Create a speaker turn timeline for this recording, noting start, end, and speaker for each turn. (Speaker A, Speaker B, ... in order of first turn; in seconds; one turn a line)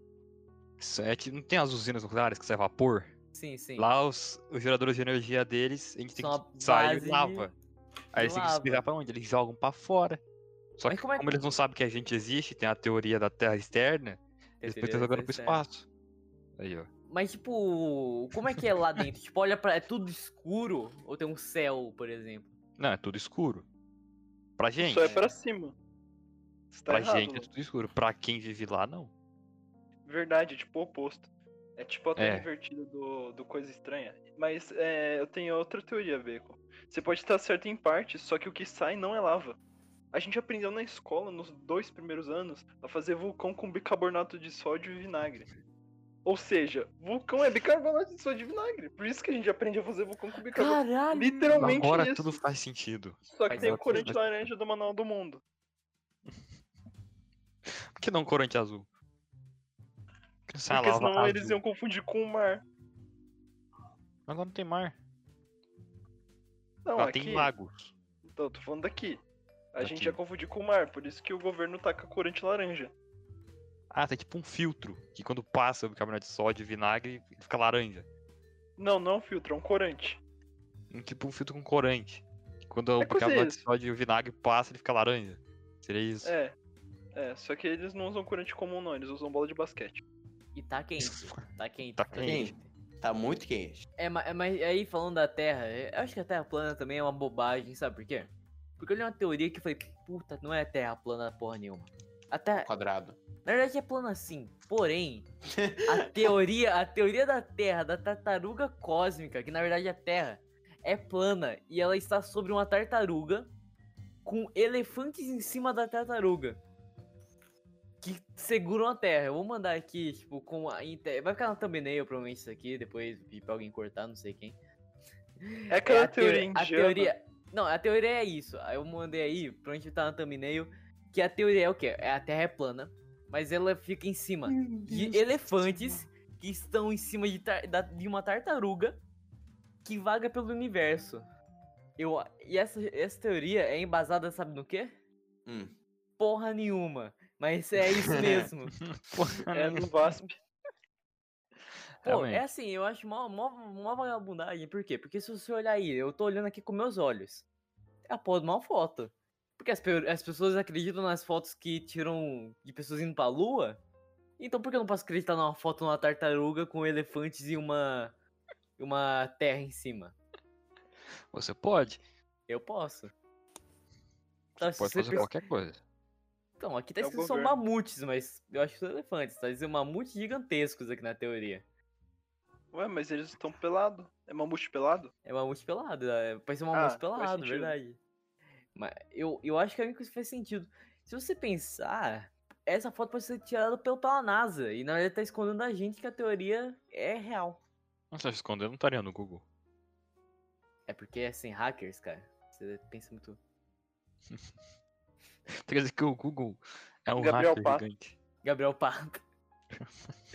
Speaker A: 0.8-3.1
Speaker B: 3.3-3.9
Speaker A: 3.8-7.5
Speaker B: 6.2-7.5
Speaker A: 8.1-10.2
Speaker B: 8.1-8.8
Speaker A: 10.8-15.8
Speaker B: 10.9-11.4
Speaker B: 14.6-15.6
Speaker A: 16.6-16.9
Speaker B: 17.1-22.5
Speaker A: 22.8-23.6
Speaker A: 24.6-25.1
Speaker C: 24.8-25.7
Speaker B: 25.0-25.3
Speaker C: 26.7-27.5
Speaker A: 26.9-29.1
Speaker C: 30.1-39.6
Speaker A: 32.1-32.5
Speaker C: 40.1-45.5
Speaker C: 46.2-52.4
Speaker B: 50.5-51.8
Speaker A: 51.6-54.4
Speaker C: 53.2-55.4
Speaker B: 53.5-54.1
Speaker A: 57.7-58.9
Speaker A: 60.5-61.6
Speaker C: 60.7-62.6
Speaker A: 64.3-64.9
Speaker C: 66.8-67.5
Speaker A: 67.0-67.9
Speaker C: 68.3-69.2
Speaker C: 69.7-72.9
Speaker A: 69.8-70.2
Speaker A: 73.9-78.0
Speaker C: 78.8-80.2
Speaker A: 80.9-86.3
Speaker C: 83.0-83.6
Speaker C: 86.2-86.5
Speaker C: 87.1-90.0
Speaker B: 90.5-92.7
Speaker A: 92.0-92.5
Speaker D: 92.2-93.8
Speaker B: 94.0-102.7
Speaker D: 102.5-103.2
Speaker B: 103.4-105.3
Speaker D: 105.5-106.3
Speaker B: 105.8-113.5
Speaker B: 114.2-116.6
Speaker B: 118.0-124.6
Speaker B: 125.4-139.0
Speaker C: 125.7-127.1
Speaker D: 134.5-135.2
Speaker B: 139.8-141.2
Speaker B: 142.0-144.9
Speaker D: 145.4-145.7
Speaker B: 146.2-148.7
Speaker D: 148.0-148.5
Speaker A: 148.9-149.9
Speaker C: 149.5-150.3
Speaker A: 152.0-152.4
Speaker B: 152.0-157.4
Speaker B: 158.1-163.8
Speaker B: 164.4-168.1
Speaker B: 168.8-170.2
Speaker A: 171.3-172.0
Speaker B: 172.5-173.1
Speaker B: 174.6-175.3
Speaker A: 174.6-175.8
Speaker B: 176.6-181.6
Speaker C: 177.0-177.6
Speaker C: 182.7-185.1
Speaker B: 185.2-188.0
Speaker C: 186.7-187.7
Speaker B: 188.7-197.6
Speaker A: 198.1-199.4
Speaker B: 200.9-203.4
Speaker A: 205.6-208.1
Speaker C: 207.2-207.8
Speaker B: 208.4-209.2